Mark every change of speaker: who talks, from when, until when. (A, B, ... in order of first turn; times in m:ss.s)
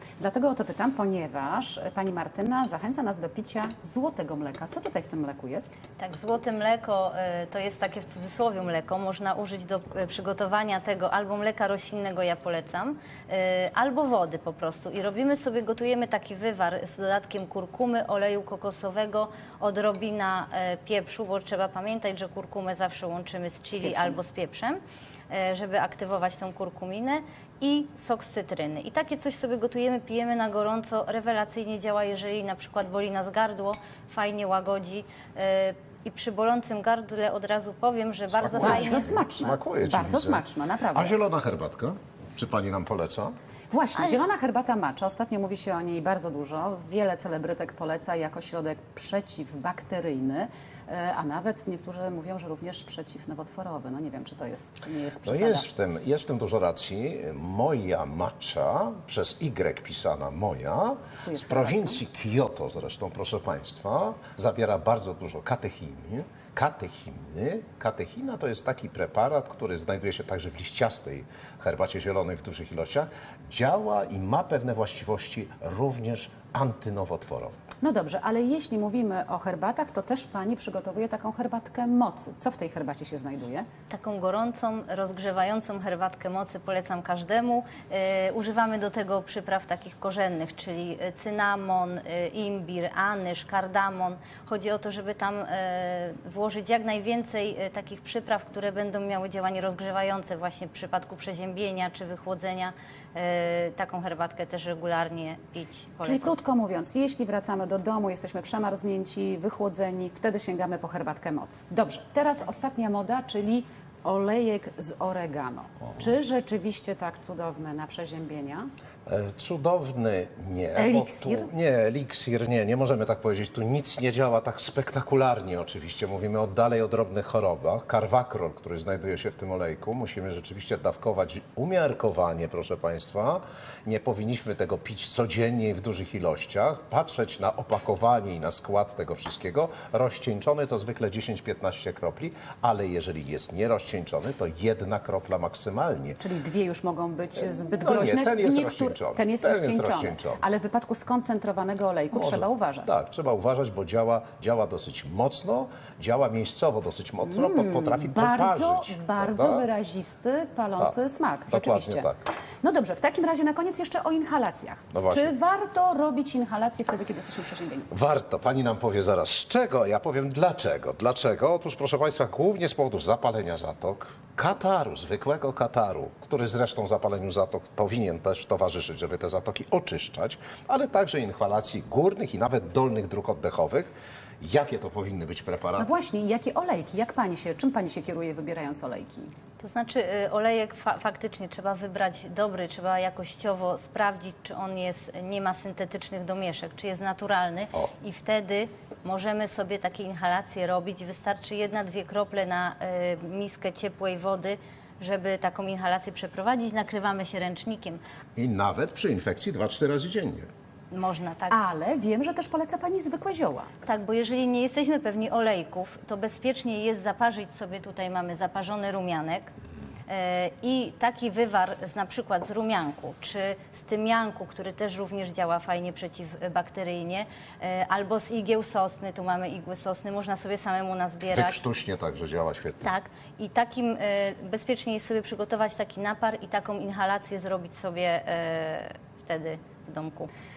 0:00.2-0:05.7 A
0:06.0-0:24.8 B
0:23.7-0:24.2 A
0:25.3-0:39.1 B
0:38.4-0:40.4 C
0:38.6-0:41.1 A
0:40.9-0:43.3 C
0:43.7-0:55.7 A
0:55.2-1:17.5 C
1:01.2-1:02.0 A
1:17.8-1:23.7 A
1:23.9-1:46.4 B
1:46.0-1:58.7 A
1:59.0-2:26.2 C
2:00.7-2:01.5 A
2:26.2-2:32.9 A
2:27.7-2:30.4 C
2:32.1-2:39.6 C
2:37.3-2:42.1 A
2:41.5-2:42.2 C
2:42.6-2:47.9 A
2:44.9-2:45.3 C
2:47.9-3:05.9 C
3:05.8-3:09.3 A
3:09.6-3:28.0 B
3:28.4-3:30.5 C
3:30.9-3:31.6 B
3:31.5-3:33.7 A
3:33.8-3:39.5 B
3:40.1-3:51.6 B
3:51.3-3:52.9 C
3:52.8-4:00.3 B